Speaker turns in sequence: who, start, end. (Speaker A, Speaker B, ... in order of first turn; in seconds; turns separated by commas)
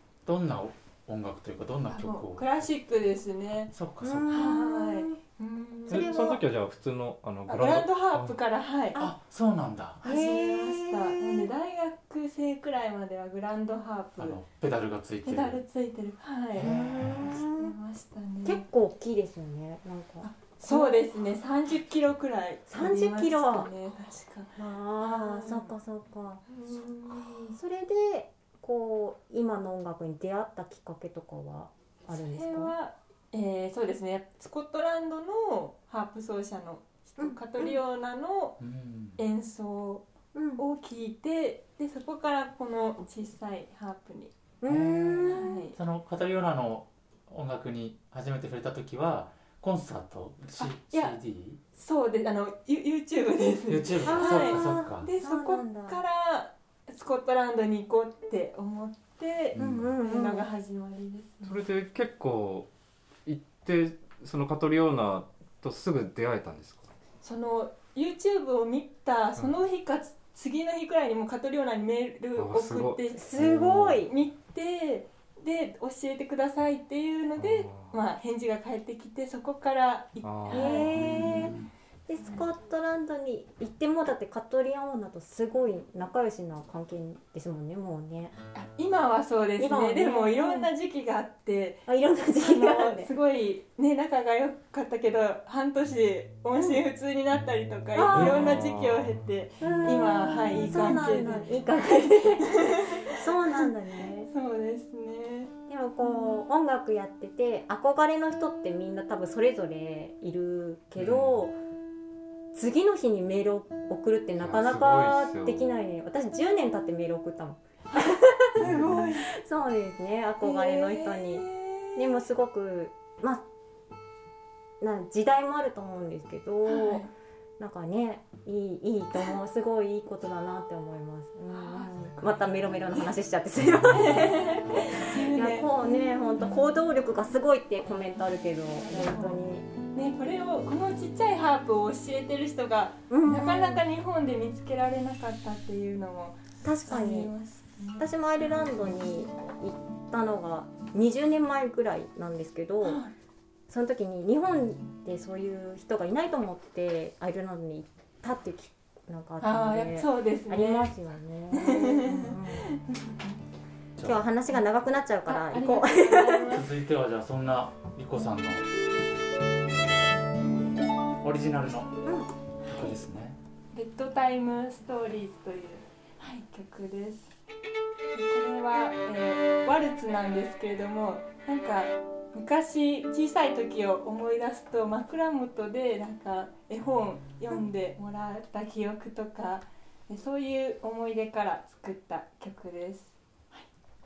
Speaker A: 0.3-2.5, Speaker B: 1.9-3.7, Speaker A: 3.7-4.5, Speaker C: 4.0-5.2, Speaker B: 4.3-6.3, Speaker C: 5.9-6.4, Speaker D: 5.9-8.4, Speaker B: 7.5-9.0, Speaker A: 9.0-10.0, Speaker B: 10.0-14.4, Speaker C: 10.0-11.5, Speaker A: 14.2-15.6, Speaker B: 15.3-18.6, Speaker A: 16.5-17.3, Speaker C: 16.6-17.8, Speaker C: 18.4-21.0, Speaker B: 20.2-25.7, Speaker C: 22.7-23.7, Speaker C: 24.6-26.4, Speaker B: 26.5-27.6, Speaker C: 27.5-32.7, Speaker B: 32.1-38.6, Speaker C: 37.2-37.8, Speaker A: 38.6-39.2, Speaker B: 39.2-40.0, Speaker C: 40.3-40.6, Speaker B: 40.6-44.3, Speaker C: 44.6-45.6, Speaker A: 44.7-51.6, Speaker B: 45.3-45.8, Speaker B: 50.6-51.2, Speaker B: 51.8-61.6, Speaker A: 53.7-55.1, Speaker C: 54.0-56.0, Speaker A: 59.5-59.9, Speaker C: 59.6-60.5, Speaker D: 61.4-62.7, Speaker D: 63.2-66.9, Speaker B: 67.2-81.0, Speaker D: 72.4-74.0, Speaker C: 73.1-74.1, Speaker D: 77.4-78.0, Speaker D: 80.2-81.4, Speaker C: 80.5-81.5, Speaker A: 81.1-81.7, Speaker C: 82.1-88.3, Speaker B: 88.5-103.2, Speaker C: 89.6-90.7, Speaker C: 91.9-93.1, Speaker C: 98.0-98.6, Speaker D: 98.1-99.2, Speaker C: 99.6-104.3, Speaker B: 104.3-105.5, Speaker C: 105.7-111.6, Speaker A: 111.0-111.3, Speaker C: 112.5-118.6, Speaker D: 114.4-115.7, Speaker B: 118.6-119.3, Speaker D: 118.7-119.0, Speaker C: 119.2-123.4, Speaker B: 120.4-122.1, Speaker C: 124.8-127.0, Speaker B: 126.7-127.1, Speaker C: 127.6-139.7, Speaker B: 131.5-132.3, Speaker B: 134.0-135.7, Speaker B: 138.8-139.4, Speaker B: 139.9-148.1, Speaker C: 143.1-143.8, Speaker C: 146.6-147.3, Speaker C: 148.0-153.0, Speaker B: 152.8-153.1, Speaker C: 153.7-162.7, Speaker B: 159.4-160.9, Speaker B: 161.5-163.3, Speaker A: 164.0-164.2, Speaker C: 164.0-166.6, Speaker B: 165.3-166.7, Speaker A: 166.5-168.7, Speaker A: 171.2-171.9, Speaker C: 172.1-172.3, Speaker A: 172.7-173.4, Speaker B: 173.7-177.3, Speaker B: 178.1-193.7